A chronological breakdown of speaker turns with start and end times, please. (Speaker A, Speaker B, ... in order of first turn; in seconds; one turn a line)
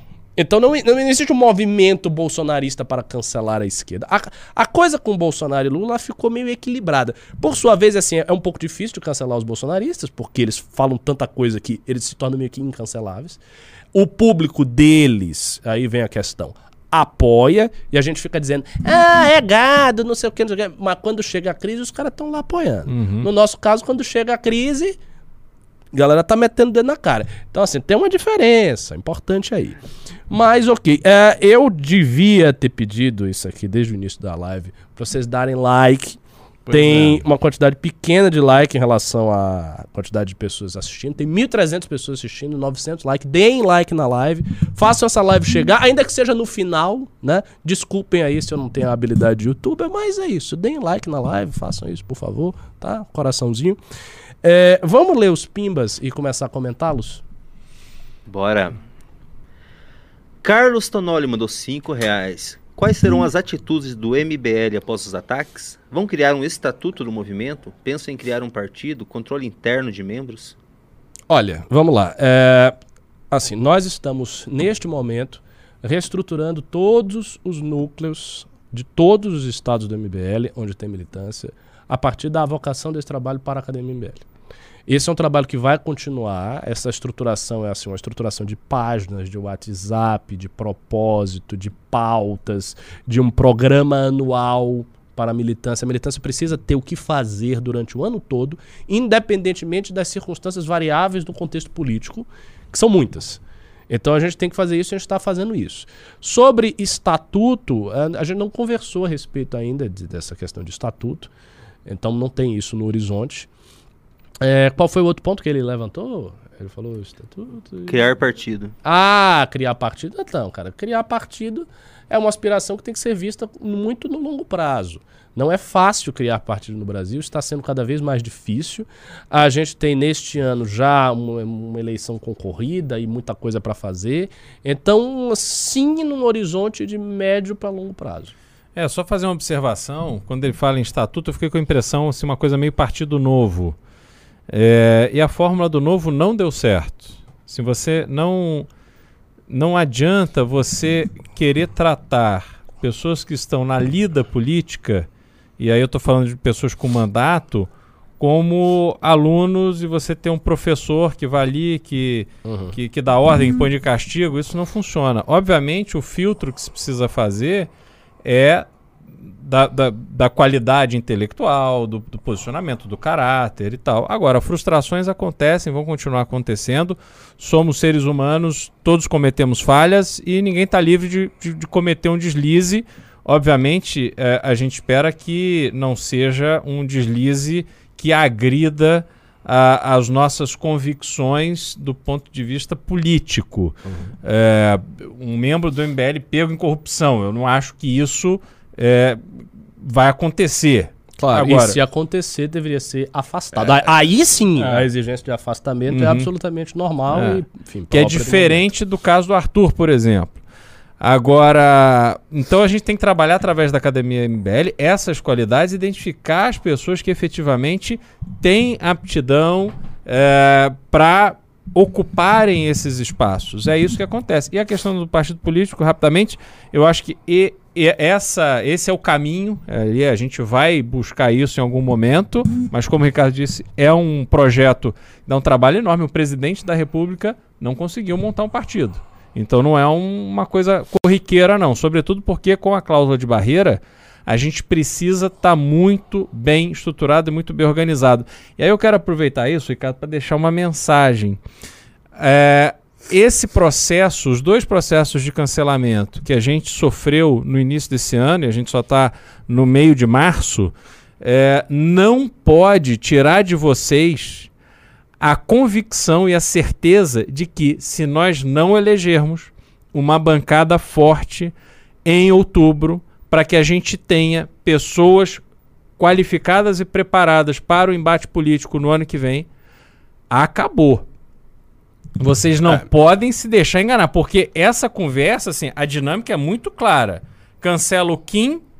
Speaker A: 0.4-13.4
Speaker A: 13.9-25.0
Speaker B: 22.9-23.3
Speaker A: 25.9-29.8
Speaker A: 30.3-53.8
Speaker B: 36.7-37.2
Speaker A: 54.4-57.2
Speaker C: 58.2-58.8
Speaker C: 60.4-70.5
Speaker A: 71.3-72.8
Speaker A: 73.3-84.2
Speaker A: 84.9-111.3
Speaker A: 111.8-113.5
Speaker A: 114.4-118.0
Speaker C: 117.9-118.7
Speaker A: 118.8-138.3
Speaker B: 138.7-143.8
Speaker B: 144.5-148.7
Speaker B: 149.5-155.1
Speaker B: 155.6-167.7
Speaker A: 162.4-162.7
Speaker B: 168.2-168.7
Speaker B: 169.2-201.8
Speaker A: 201.2-208.7
Speaker B: 203.6-203.9
Speaker B: 204.6-204.9
Speaker B: 205.9-206.3
Speaker B: 207.1-210.4
Speaker B: 211.0-251.4
Speaker B: 252.2-264.5
Speaker B: 265.2-271.5
Speaker B: 272.0-275.4
Speaker B: 276.0-279.5
Speaker B: 280.3-281.0
Speaker B: 282.2-288.6